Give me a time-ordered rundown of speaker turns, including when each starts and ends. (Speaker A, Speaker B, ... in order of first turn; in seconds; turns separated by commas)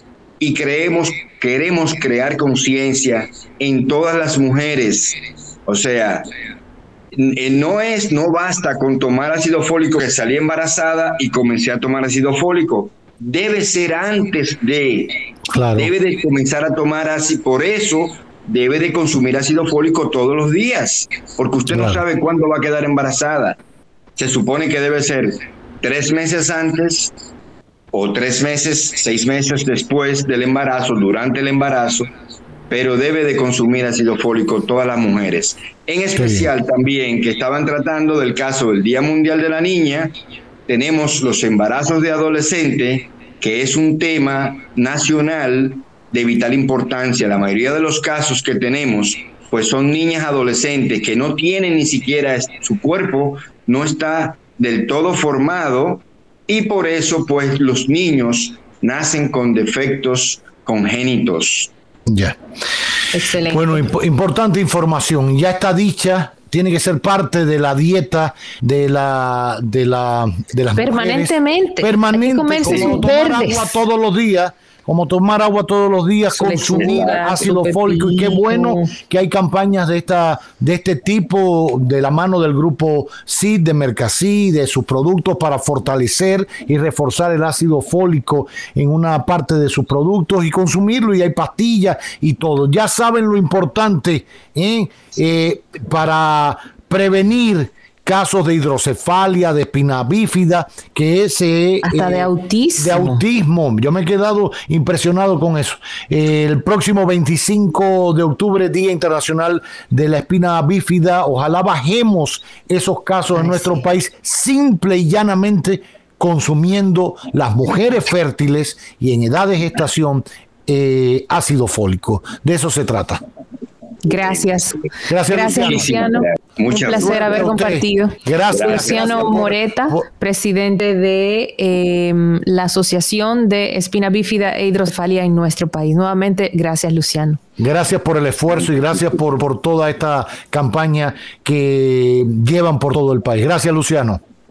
Speaker A: 0.4-6.3, Speaker A: 7.1-15.2, Speaker B: 15.5-15.9, Speaker A: 15.8-23.6, Speaker B: 21.7-22.0, Speaker A: 24.2-27.1, Speaker A: 27.9-32.1, Speaker A: 32.7-40.1, Speaker B: 36.2-36.5, Speaker A: 40.7-61.7, Speaker B: 62.1-62.4, Speaker C: 63.1-63.9, Speaker B: 63.5-123.2, Speaker C: 70.8-73.8, Speaker A: 72.6-73.0, Speaker C: 76.3-79.0, Speaker A: 76.7-77.3, Speaker C: 101.8-103.2, Speaker C: 113.4-113.8, Speaker C: 124.0-137.4, Speaker A: 124.1-124.4, Speaker B: 125.1-126.0, Speaker A: 125.3-127.5, Speaker B: 126.8-130.1, Speaker A: 128.5-129.6, Speaker B: 137.6-144.2